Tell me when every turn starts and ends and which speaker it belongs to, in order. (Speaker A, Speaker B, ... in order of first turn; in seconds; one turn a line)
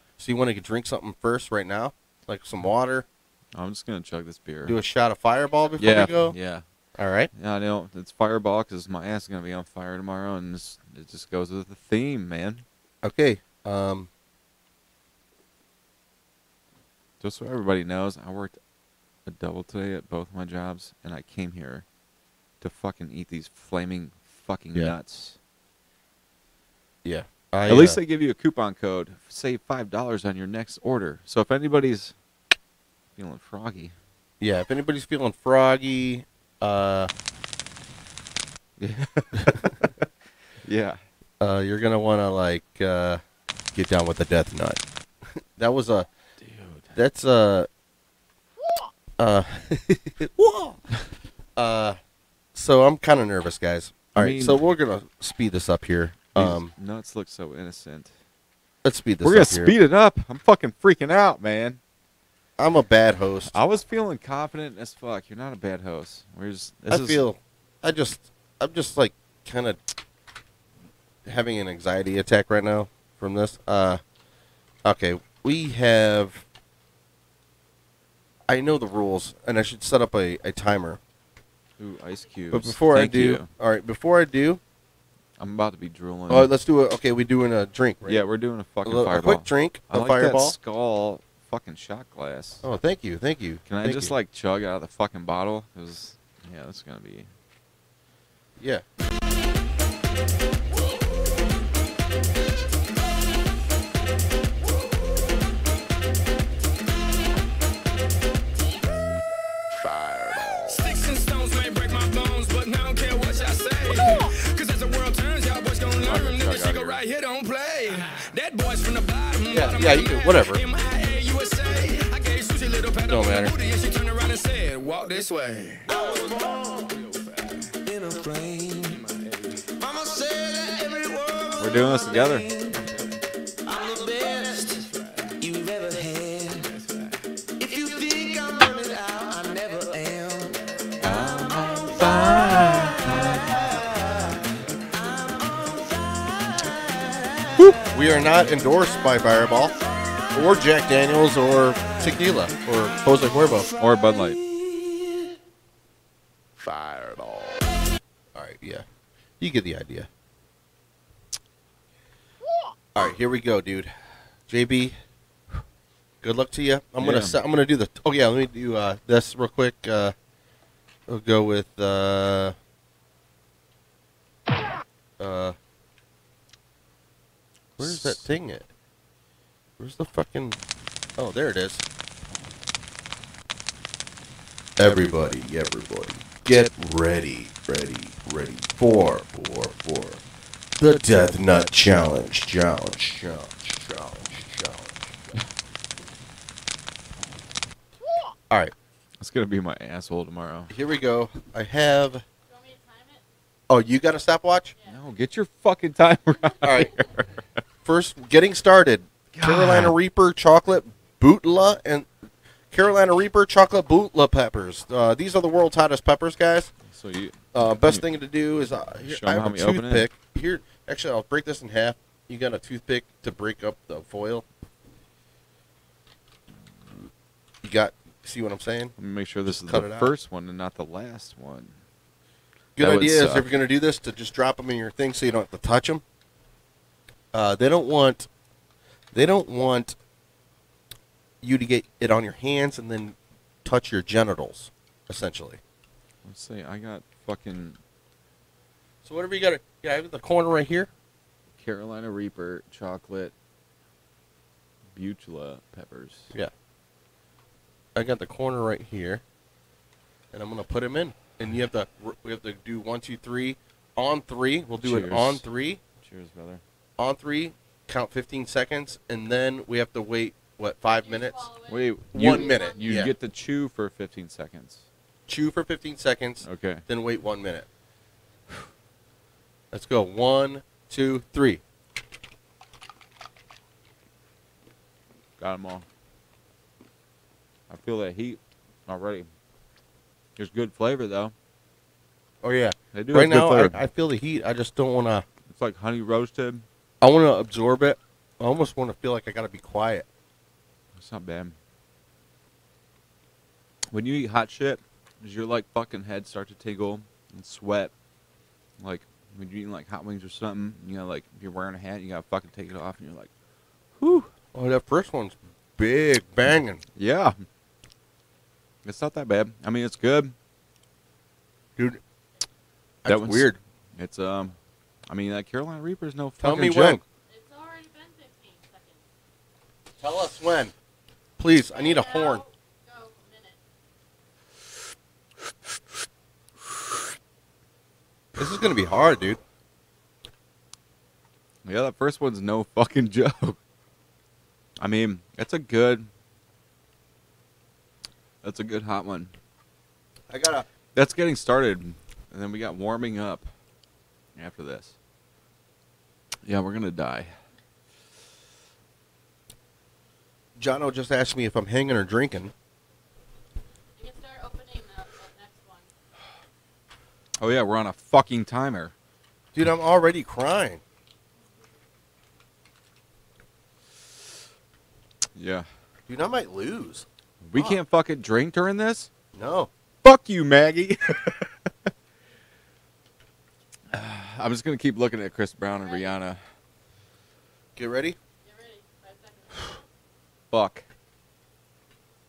Speaker A: 0.2-3.1
Speaker B: 3.5-4.8
Speaker A: 4.7-6.3
Speaker B: 5.8-6.6
Speaker A: 7.0-7.3
Speaker B: 7.3-12.7
Speaker A: 13.0-14.1
Speaker B: 17.2-18.6
Speaker B: 19.2-21.9
Speaker B: 22.6-25.4
Speaker A: 27.1-28.0
Speaker B: 27.7-32.1
Speaker B: 33.2-34.0
Speaker A: 34.4-37.1
Speaker B: 38.8-40.1
Speaker A: 39.4-39.9
Speaker B: 40.6-41.0
Speaker A: 41.4-43.2
Speaker A: 43.7-44.8
Speaker A: 45.6-46.1
Speaker B: 46.4-46.9
Speaker A: 47.0-47.7
Speaker A: 49.2-50.8
Speaker A: 51.6-52.0
Speaker A: 52.5-56.7
Speaker B: 54.2-54.6
Speaker B: 56.4-58.1
Speaker A: 58.8-59.8
Speaker B: 59.2-61.8
Speaker A: 62.6-63.5
Speaker B: 63.5-67.2
Speaker A: 66.9-69.8
Speaker A: 71.3-74.0
Speaker A: 74.8-76.5
Speaker A: 78.5-81.0
Speaker B: 81.8-83.5
Speaker A: 82.5-84.6
Speaker B: 85.4-86.5
Speaker A: 86.3-88.2
Speaker B: 88.1-92.6
Speaker A: 88.8-90.6
Speaker A: 92.6-94.1
Speaker B: 93.7-97.3
Speaker C: 110.7-125.9
Speaker B: 115.9-117.0
Speaker A: 119.5-120.6
Speaker A: 123.1-123.5
Speaker D: 125.9-127.0
Speaker D: 127.8-129.1
Speaker D: 129.7-133.1
Speaker B: 131.6-132.5
Speaker D: 133.7-136.7
Speaker D: 137.6-140.6
Speaker B: 141.0-143.6
Speaker D: 143.3-146.6
Speaker A: 147.9-149.8
Speaker A: 150.3-153.7
Speaker B: 153.8-154.4
Speaker A: 158.3-158.8
Speaker A: 159.4-160.1
Speaker A: 162.9-163.9
Speaker A: 164.5-165.0
Speaker A: 166.2-170.2
Speaker B: 167.0-167.4
Speaker A: 171.1-172.6
Speaker A: 175.2-175.6
Speaker B: 177.8-178.3
Speaker A: 177.8-178.7
Speaker A: 179.8-180.6
Speaker A: 181.2-181.8
Speaker A: 184.8-190.2
Speaker A: 190.8-195.2
Speaker B: 199.2-200.7
Speaker A: 200.7-202.2
Speaker E: 202.5-203.3
Speaker A: 203.7-204.8
Speaker B: 204.9-207.3
Speaker A: 206.6-206.9
Speaker A: 207.8-212.1
Speaker B: 209.3-209.9
Speaker A: 212.7-216.7
Speaker B: 216.8-218.1
Speaker A: 217.5-224.4
Speaker B: 219.0-220.1
Speaker A: 227.6-228.9
Speaker B: 229.0-231.8
Speaker A: 229.5-230.1
Speaker A: 232.8-236.0
Speaker B: 232.8-233.5
Speaker A: 237.3-238.3
Speaker A: 239.1-240.0
Speaker A: 241.4-245.6
Speaker B: 246.2-247.8
Speaker A: 249.1-250.9
Speaker B: 251.6-253.3
Speaker B: 254.9-256.3
Speaker A: 258.0-259.2
Speaker A: 260.3-265.8
Speaker B: 264.8-265.4
Speaker B: 266.0-266.6
Speaker A: 267.0-271.5
Speaker E: 270.8-273.1
Speaker B: 271.7-274.9
Speaker A: 272.1-273.1
Speaker A: 275.3-277.7
Speaker B: 276.4-276.8
Speaker A: 279.7-281.6
Speaker B: 285.4-285.9
Speaker B: 287.7-289.3
Speaker B: 290.4-291.3
Speaker A: 292.4-295.2
Speaker B: 292.9-293.8
Speaker B: 295.5-296.6
Speaker A: 297.0-300.1
Speaker B: 300.9-301.6
Speaker B: 303.9-307.9
Speaker B: 308.8-313.3
Speaker B: 314.0-314.3
Speaker A: 314.5-316.8
Speaker B: 317.0-317.4
Speaker B: 318.8-320.4
Speaker A: 323.0-323.6
Speaker B: 323.1-324.6
Speaker B: 325.1-327.0
Speaker A: 326.4-327.0
Speaker E: 327.3-329.0
Speaker A: 330.0-330.7
Speaker A: 331.4-332.4
Speaker E: 331.7-333.6
Speaker A: 338.4-339.4
Speaker B: 341.6-343.6
Speaker B: 344.8-346.1
Speaker B: 348.4-349.3
Speaker A: 350.3-350.7
Speaker B: 350.9-353.5
Speaker B: 354.4-354.9
Speaker B: 356.4-357.3
Speaker A: 360.6-362.5
Speaker E: 364.0-365.9
Speaker B: 367.4-368.9
Speaker A: 369.5-370.8
Speaker B: 375.4-375.7
Speaker A: 376.1-377.8
Speaker B: 377.4-379.1
Speaker A: 379.4-379.7
Speaker B: 380.0-381.7
Speaker B: 383.9-386.4
Speaker E: 385.7-386.2
Speaker A: 387.8-388.2
Speaker E: 388.4-389.8
Speaker B: 390.5-390.9